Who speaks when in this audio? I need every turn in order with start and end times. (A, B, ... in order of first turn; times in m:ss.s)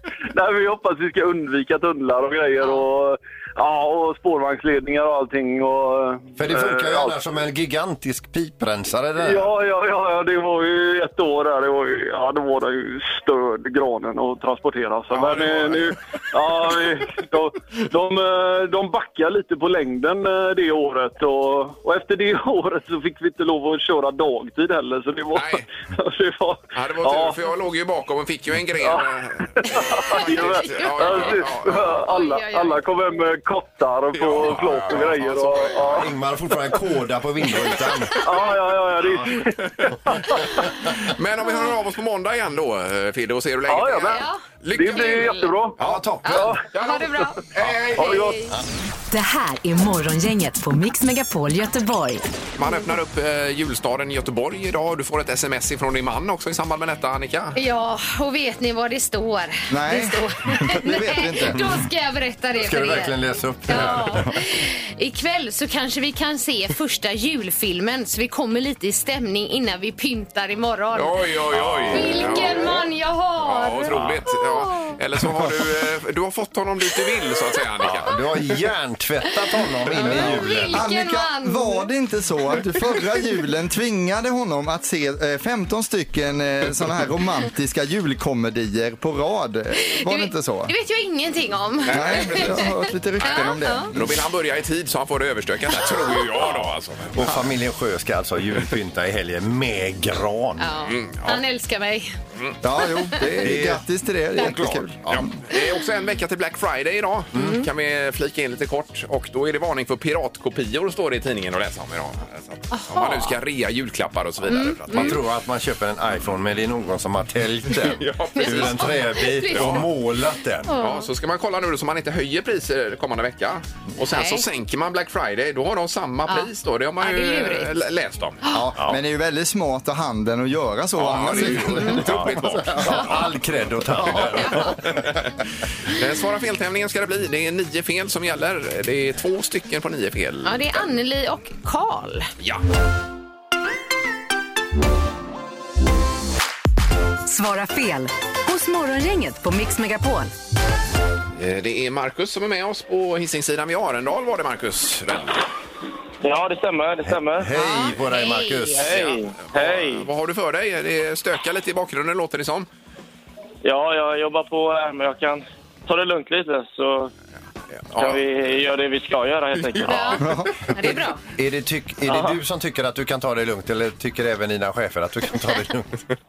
0:00.3-0:07.2 A
0:06.4-0:09.5 B
0:09.2-0:27.4 A
0:15.1-0:15.9 C
0:25.3-0:25.6 C
0:26.7-0:32.0 C
0:28.8-0:36.1 A
0:29.9-0:32.8 D
0:34.1-0:36.1 C
0:34.4-0:35.1 B
0:35.8-0:38.3 B
0:38.2-0:40.5 A
0:39.0-0:39.4 B
0:39.4-0:40.4 C
0:41.0-0:48.4 C
0:43.7-0:44.2 A
0:44.1-0:45.5 D
0:44.7-0:45.8 A
0:45.8-0:46.5 B
0:46.2-0:47.4 D
0:46.3-0:47.3 A
0:48.0-0:48.5 D
0:48.0-0:48.4 A
0:49.1-0:52.2 E
0:52.5-0:57.6 C
0:57.6-1:11.2 D
0:59.7-1:01.8 F
1:02.5-1:04.3 B
1:10.9-1:12.8 C
1:11.5-1:12.5 B
1:11.9-1:14.9 D
1:13.4-1:18.2 C
1:13.9-1:14.3 B
1:17.8-1:20.9 B
1:19.9-1:21.9 D
1:20.7-1:30.7 F
1:30.0-1:33.9 D
1:31.8-1:37.4 C
1:31.9-1:34.1 F
1:37.1-1:40.8 B
1:40.6-1:42.2 D
1:40.8-1:41.4 C
1:42.6-1:45.3 F
1:42.8-1:43.5 D
1:43.4-1:45.3 B
1:44.4-1:44.8 D
1:45.1-1:55.2 C
1:47.3-1:47.6 D
1:52.7-1:53.4 D
1:54.5-1:55.2 D
1:54.9-2:00.8 B
1:57.7-1:59.9 D
1:58.0-1:59.9 C
2:00.6-2:01.1 D
2:00.8-2:08.4 C
2:04.0-2:04.4 D
2:06.3-2:07.7 D
2:08.5-2:12.4 F
2:11.0-2:13.3 C
2:11.4-2:12.0 D
2:12.0-2:15.1 B
2:14.0-2:20.8 C
2:14.3-2:14.6 D
2:20.4-2:22.3 D
2:27.2-2:30.3 E
2:31.4-2:35.4 C
2:36.2-2:37.5 G
2:37.0-2:38.9 B
2:37.5-2:38.8 D
2:38.8-2:40.1 G
2:38.8-2:42.7 C
2:43.6-2:47.1 G
2:47.9-2:48.2 C
2:47.9-2:50.2 G
2:49.7-2:50.1 C
2:49.8-2:51.2 D
2:50.2-2:50.5 F
2:50.7-2:55.9 B
2:52.1-2:52.4 G